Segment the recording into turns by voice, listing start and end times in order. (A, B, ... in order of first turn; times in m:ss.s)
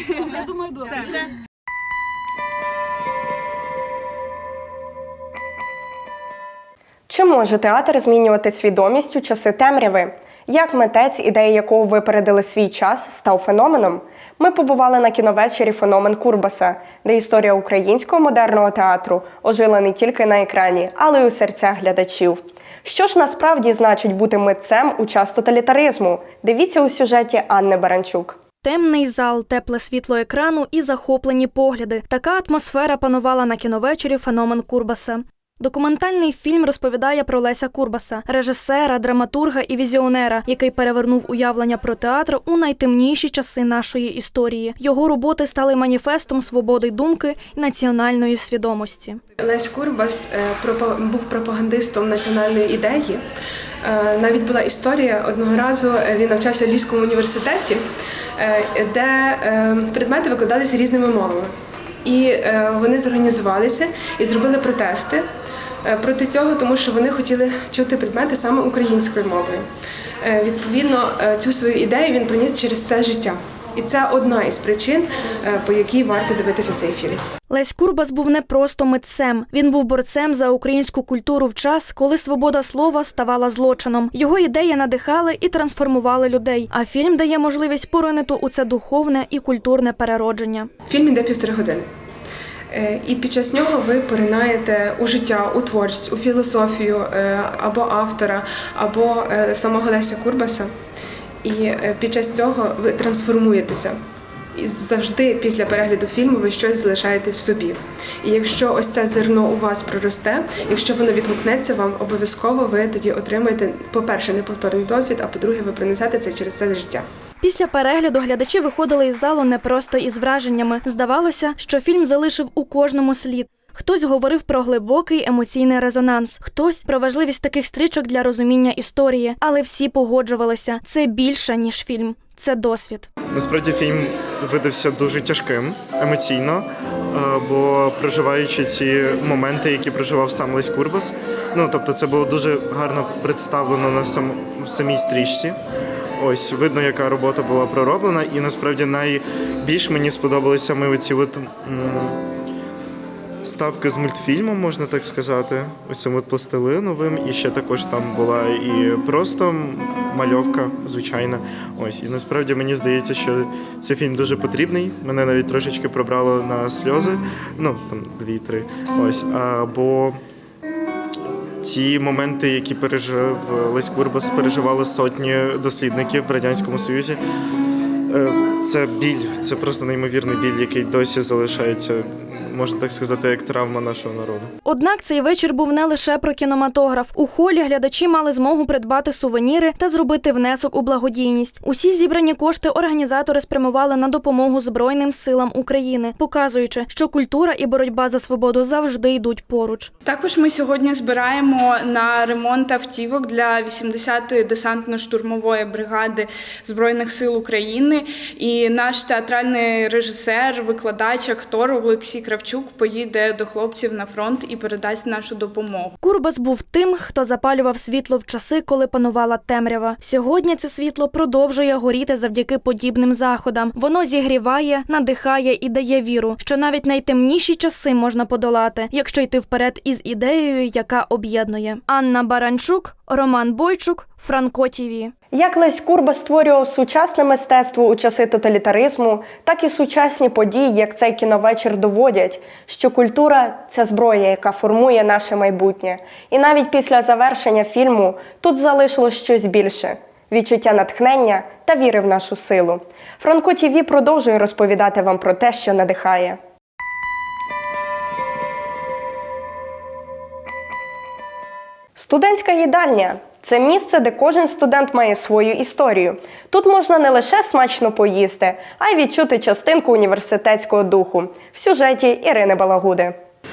0:07.1-0:28.4 A
0:28.6-0:49.2 B
0:49.4-0:53.2 C
0:53.8-0:57.8 C
0:58.4-1:01.5 C
1:02.0-1:05.2 C
1:05.8-1:09.6 C
1:10.2-1:17.2 C
1:17.5-1:30.7 B
1:30.9-1:31.8 C
1:32.7-1:40.7 C
1:41.4-1:44.0 C
1:44.6-1:57.0 C
1:57.4-2:13.1 B
2:13.3-2:25.6 D
2:26.2-2:32.2 D
2:33.4-2:50.2 D
2:51.6-2:57.2 D
2:58.1-3:04.5 D
3:04.6-3:19.9 B
3:20.0-3:36.0 E
3:36.0-3:55.1 B
3:55.3-4:16.4 A
4:22.0-4:33.2 A